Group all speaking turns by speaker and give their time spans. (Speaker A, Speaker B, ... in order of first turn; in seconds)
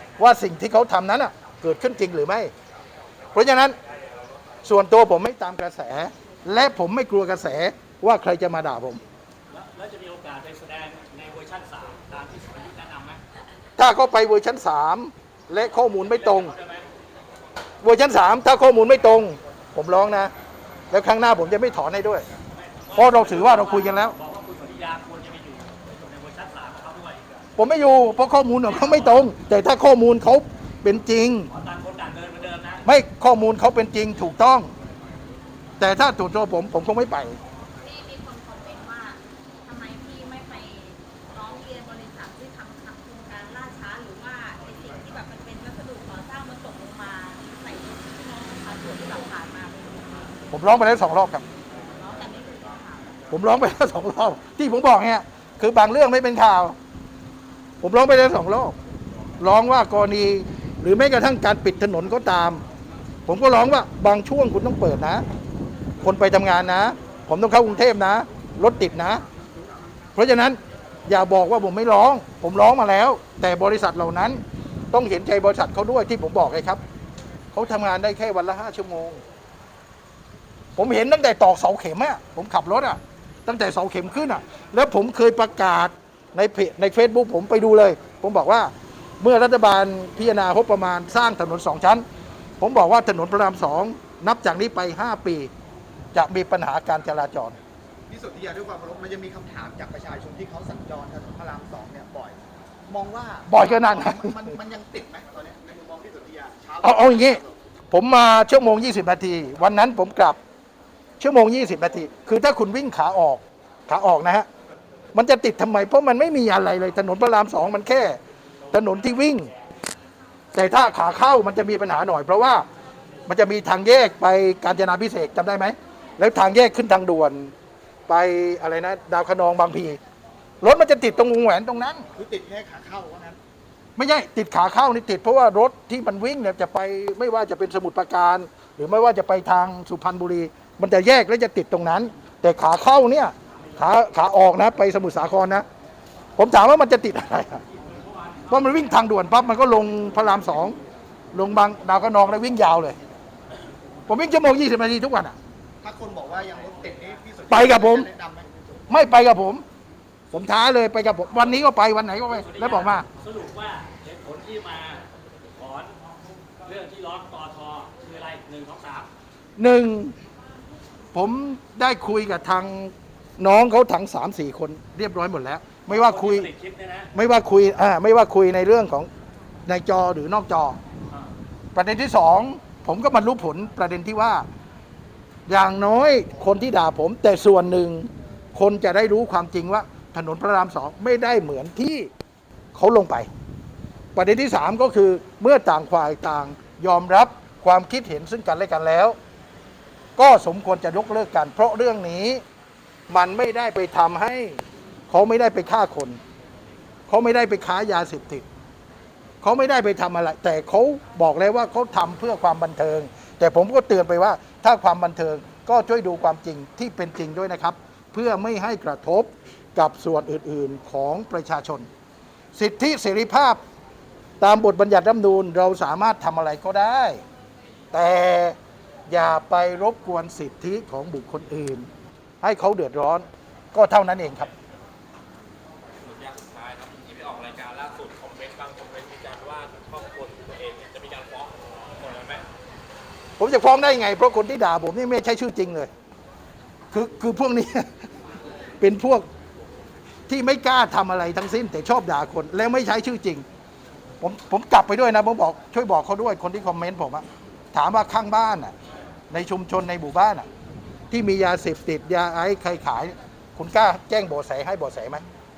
Speaker A: 0.2-2.5, 3.3-3.8, 4.6-9.0, 13.8-16.5, 17.8-20.3, 20.9-22.3, 22.9-24.2, 27.6-31.5, 32.9-34.7, 35.8-37.4, 50.5-51.5, 53.3-56.8, 57.8-58.8, 59.4-62.6, 63.3-65.2, 66.0-69.2, 70.2-74.4, 74.9-76.8, 77.5-79.2, 80.8-92.0, 92.6-95.5, 96.1-97.6, 103.5-104.5, 106.8-110.4, 111.2-114.5, 115.1-118.2, 118.7-119.5, 120.5-122.7, 123.3-127.5, 128.1-130.0, 130.6-132.1, 134.0-145.7, 146.4-147.6, 148.5-150.8, 151.3-153.0, 154.1-155.4, 157.5-158.1, 158.9-159.7, 160.3-163.1, 169.6-170.2, 171.1-176.5, 177.1-179.1, 179.7-180.8, 181.7-184.5, 185.5-192.1, 192.7-193.3, 194.2-199.2, 200.2-202.4, 203.1-206.2, 207.1-208.5, 209.4-221.9, 222.5-223.6, 224.4-227.2, 227.9-228.6, 229.1-231.9, 232.4-234.5, 243.4-245.9, 246.9-248.1, 248.8-249.3, 250.3-253.5, 254.2-258.7, 259.3-260.5, 261.1-265.2
Speaker B: 9.5-13.2, 16.0-16.9, 22.5-27.2, 28.7-29.3, 31.5-32.9, 148.2-148.6, 162.3-165.9, 166.6-169.1, 175.9-177.1
Speaker C: 37.8-50.3, 51.8-53.2
Speaker D: 98.1-107.6, 132.1-133.4, 155.8-158.8
Speaker E: 236.0-242.4